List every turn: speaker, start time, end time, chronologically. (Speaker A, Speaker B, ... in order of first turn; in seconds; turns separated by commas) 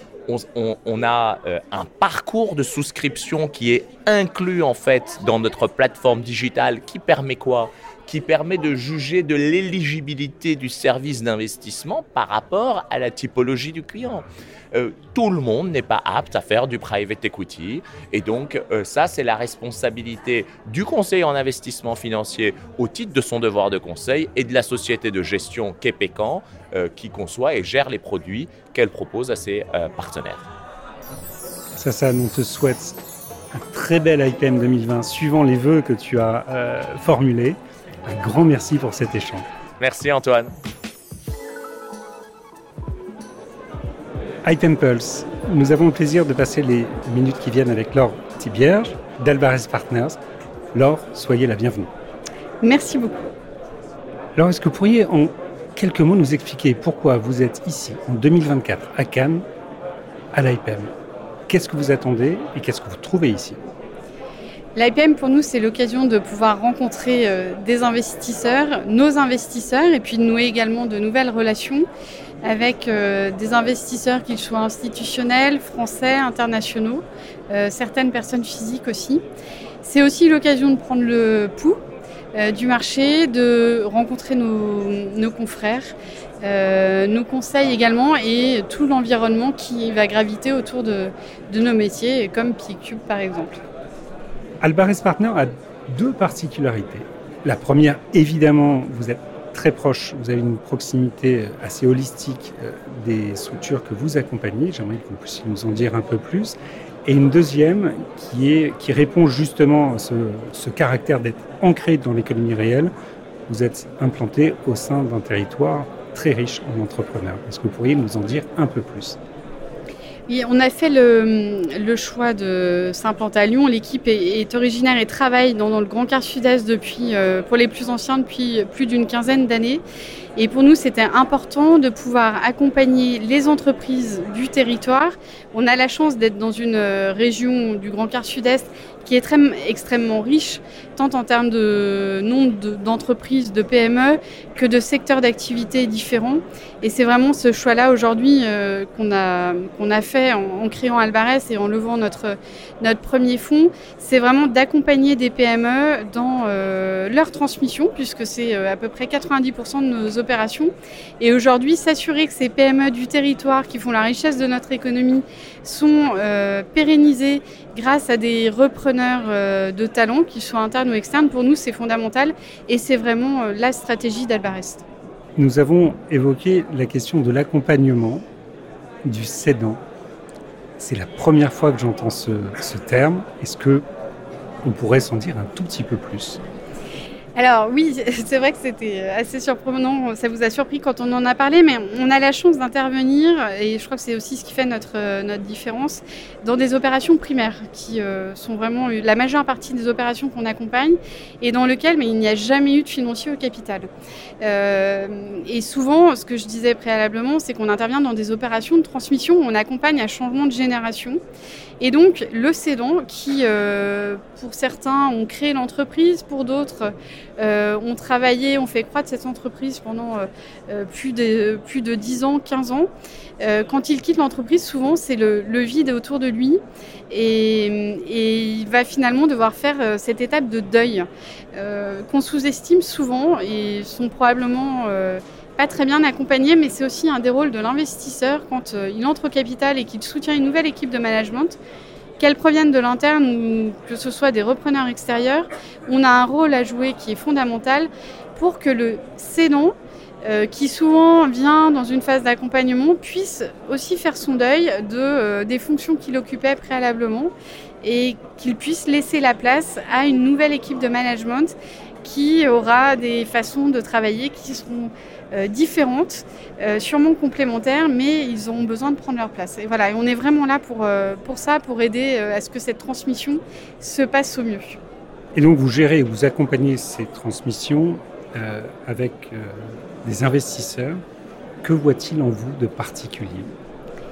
Speaker A: 0.3-30.5, Speaker B: 31.8-39.5, Speaker A: 39.8-40.5, Speaker B: 44.4-50.2, Speaker B: 50.7-51.9, Speaker C: 52.6-53.2, Speaker B: 54.4-59.4, Speaker B: 60.3-60.9, Speaker B: 61.5-63.6, Speaker C: 64.7-71.9, Speaker C: 72.4-79.2, Speaker C: 79.8-81.8, Speaker C: 82.3-93.6, Speaker B: 94.6-112.9, Speaker B: 113.5-119.2, Speaker C: 120.3-129.8, Speaker C: 130.3-174.8, Speaker B: 175.4-178.2, Speaker B: 179.0-179.8, Speaker B: 180.8-183.8, Speaker B: 184.6-186.4, Speaker C: 187.3-203.9, Speaker C: 204.4-211.2, Speaker C: 211.8-222.9, Speaker C: 223.4-241.6, Speaker C: 242.2-274.8, Speaker B: 275.3-281.0, Speaker B: 281.6-283.5